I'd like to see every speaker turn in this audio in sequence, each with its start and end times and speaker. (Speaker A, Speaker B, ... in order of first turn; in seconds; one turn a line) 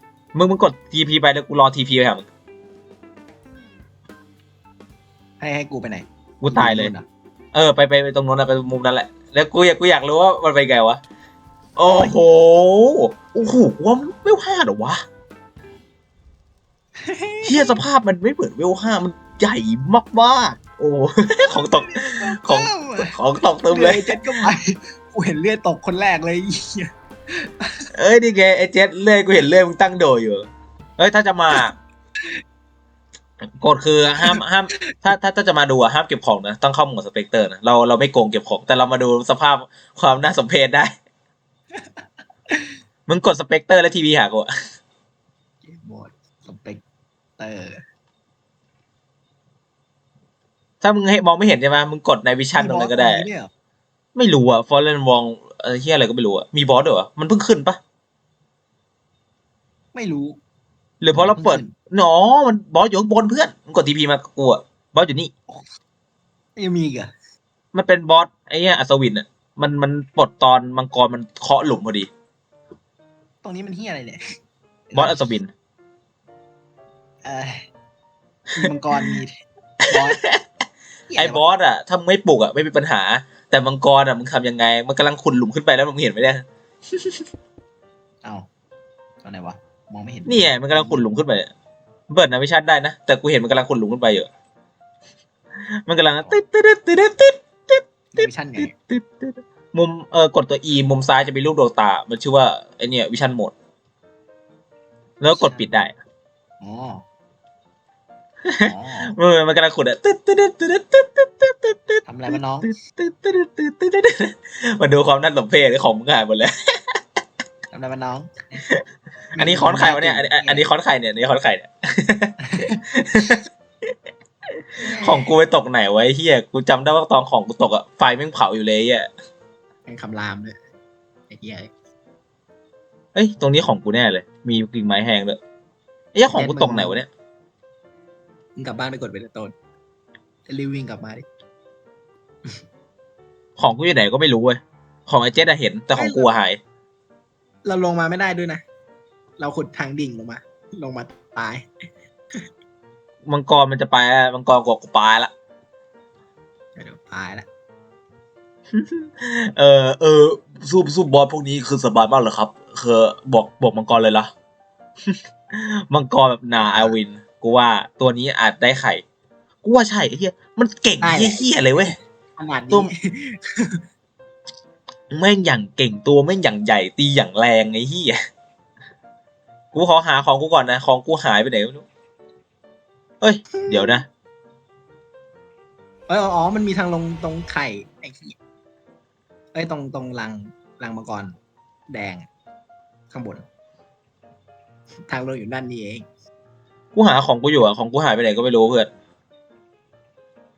Speaker A: 0.3-2.2
Speaker B: 5.4-7.0
Speaker A: 6.4-6.9
Speaker A: 7.5-11.0
Speaker A: 11.8-15.0
Speaker B: 11.8-12.1
Speaker B: 17.0-17.8
Speaker A: 17.4-24.5
Speaker B: 21.4-27.8
Speaker A: 27.9-30.5
Speaker A: 31.0-31.7
Speaker A: 33.5-40.9
Speaker B: 41.7-42.7
Speaker A: 43.1-44.5
Speaker B: 45.6-46.8
Speaker B: 47.4-47.8
Speaker A: 50.8-53.2
Speaker B: 52.5-53.5
Speaker A: 54.1-57.8
Speaker B: 59.9-60.4
Speaker A: 61.0-65.3
Speaker B: 61.1-61.7
Speaker B: 66.5-67.1
Speaker A: 67.7-72.1
Speaker B: 73.4-74.2
Speaker B: 74.9-75.2
Speaker A: 74.9-75.5
Speaker B: 77.2-77.6
Speaker B: 78.6-79.3
Speaker B: 79.9-80.2
Speaker A: 79.9-80.4
Speaker B: 81.1-81.4
Speaker A: 81.2-86.4
Speaker B: 89.2-91.0
Speaker A: 90.2-91.5
Speaker A: 92.1-94.3
Speaker A: 95.8-103.5
Speaker B: 98.1-98.7
Speaker A: 105.2-106.0
Speaker B: 105.3-105.6
Speaker B: 106.6-107.0
Speaker A: 108.5-116.8
Speaker B: 108.6-109.1
Speaker B: 112.0-112.7
Speaker B: 117.7-118.4
Speaker B: 119.3-120.7
Speaker A: 119.3-123.4
Speaker B: 122.4-122.8
Speaker B: 124.8-125.3
Speaker A: 125.0-129.1
Speaker B: 129.9-130.6
Speaker B: 131.3-131.7
Speaker A: 133.1-135.4
Speaker A: 136.1-137.1
Speaker B: 136.3-137.0
Speaker B: 138.6-139.5
Speaker B: 140.5-141.2
Speaker A: 143.6-146.6
Speaker B: 145.9-146.3
Speaker B: 147.7-148.6
Speaker B: 149.4-151.7
Speaker A: 153.2-155.3
Speaker B: 156.8-157.4
Speaker A: 158.7-164.3
Speaker A: 165.1-169.0
Speaker B: 166.6-166.9
Speaker A: 169.6-171.9
Speaker B: 171.0-173.8
Speaker A: 175.1-178.2
Speaker A: 179.7-181.8
Speaker A: 183.2-184.1
Speaker B: 183.6-184.0
Speaker B: 186.1-188.3
Speaker B: 189.5-191.3
Speaker B: 191.9-192.3
Speaker B: 193.1-193.4
Speaker B: 195.1-196.0
Speaker A: 196.9-198.9